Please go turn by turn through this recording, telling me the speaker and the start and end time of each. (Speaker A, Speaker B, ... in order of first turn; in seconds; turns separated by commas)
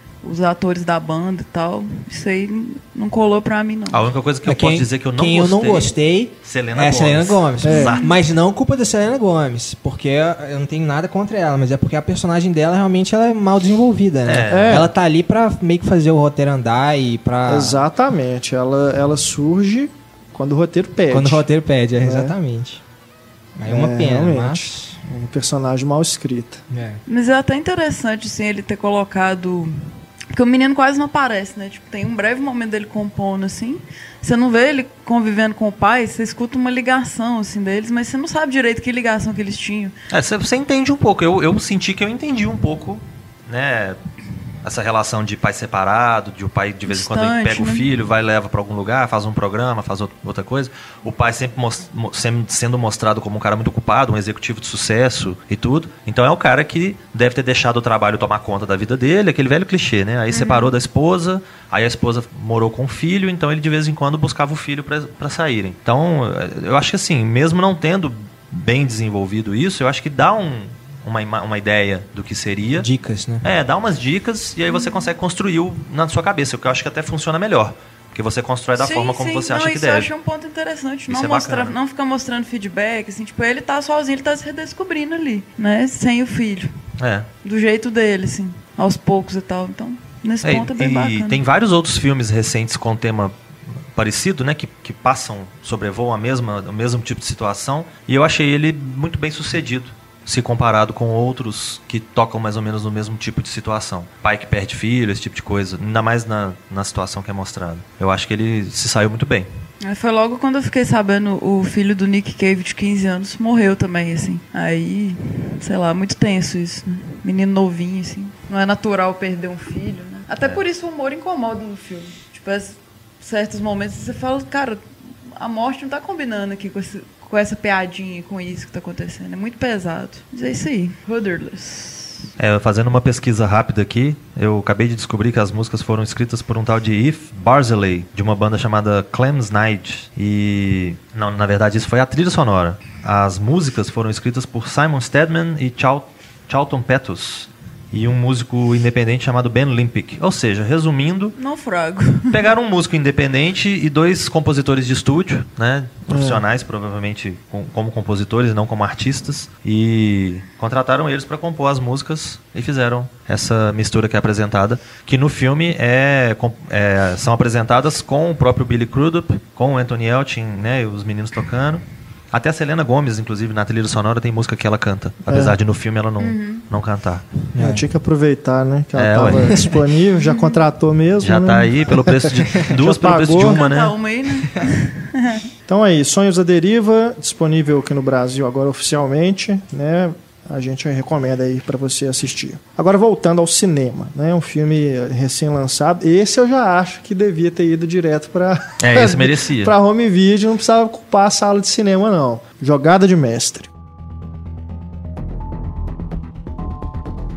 Speaker A: 0.2-4.0, Speaker B: 3.9-8.1, Speaker C: 4.5-17.8, Speaker D: 7.6-7.9, Speaker A: 7.7-8.1, Speaker B: 14.2-14.9, Speaker D: 14.5-14.9, Speaker D: 17.5-21.4, Speaker C: 21.1-22.8, Speaker D: 22.0-22.4, Speaker C: 23.6-25.0, Speaker D: 23.6-26.6, Speaker C: 26.7-27.0, Speaker A: 27.1-39.9, Speaker B: 40.1-44.0, Speaker B: 44.6-72.9, Speaker A: 46.9-47.9, Speaker A: 60.3-60.7, Speaker C: 72.8-73.5, Speaker B: 73.4-80.1, Speaker A: 78.8-86.7, Speaker B: 81.1-81.7, Speaker B: 87.0-87.3, Speaker A: 87.4-91.4, Speaker B: 90.4-93.3, Speaker B: 93.9-109.5, Speaker A: 109.8-132.3, Speaker B: 132.4-151.3, Speaker A: 151.3-152.5, Speaker B: 152.3-177.3, Speaker D: 156.1-156.4, Speaker D: 175.3-175.6, Speaker A: 176.2-176.6, Speaker C: 177.5-177.8, Speaker D: 177.5-183.6, Speaker B: 178.9-179.6, Speaker C: 179.5-179.7, Speaker A: 180.2-180.6, Speaker B: 181.2-184.0, Speaker A: 183.4-185.4, Speaker D: 185.7-203.7, Speaker B: 198.8-199.7